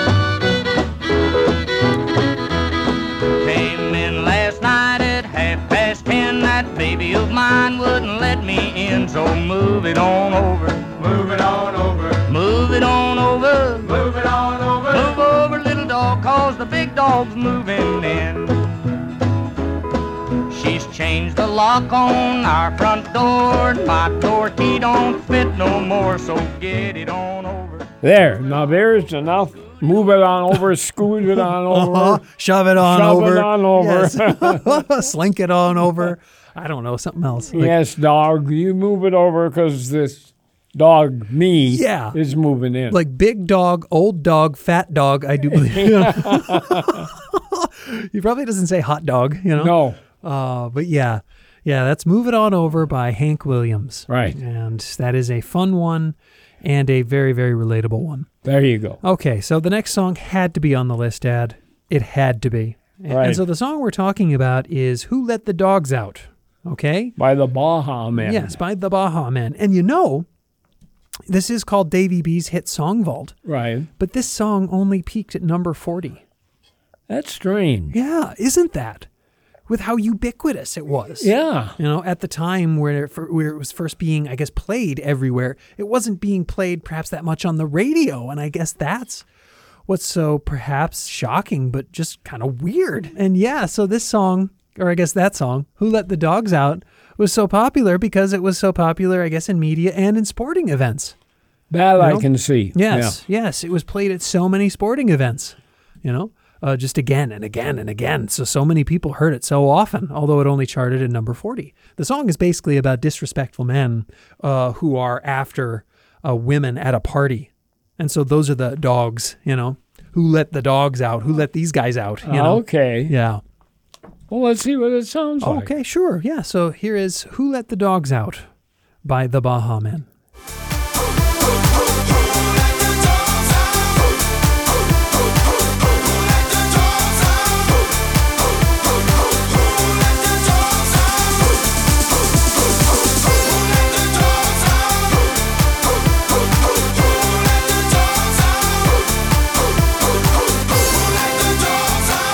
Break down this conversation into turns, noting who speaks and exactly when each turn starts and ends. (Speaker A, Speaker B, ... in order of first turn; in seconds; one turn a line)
Speaker A: 3.4-18.6
Speaker A: 20.5-27.9
Speaker B: 28.0-32.2
Speaker C: 31.7-37.7
Speaker B: 32.8-34.9
Speaker B: 37.5-43.0
Speaker C: 41.7-42.2
Speaker C: 42.9-58.3
Speaker B: 45.5-47.0
Speaker B: 49.5-50.0
Speaker B: 54.1-54.4
Speaker B: 58.4-59.0
Speaker C: 59.0-67.1
Speaker B: 63.1-63.4
Speaker B: 67.2-68.6
Speaker C: 68.2-70.2
Speaker C: 71.3-73.3
Speaker B: 73.5-73.9
Speaker C: 74.0-76.2
Speaker B: 77.1-78.0
Speaker C: 77.9-79.1
Speaker C: 79.7-89.2
Speaker B: 81.2-81.8
Speaker C: 89.9-101.1
Speaker B: 101.7-103.2
Speaker C: 102.0-123.4
Speaker B: 122.2-123.1
Speaker B: 124.3-125.7
Speaker C: 125.4-128.5
Speaker C: 129.0-130.1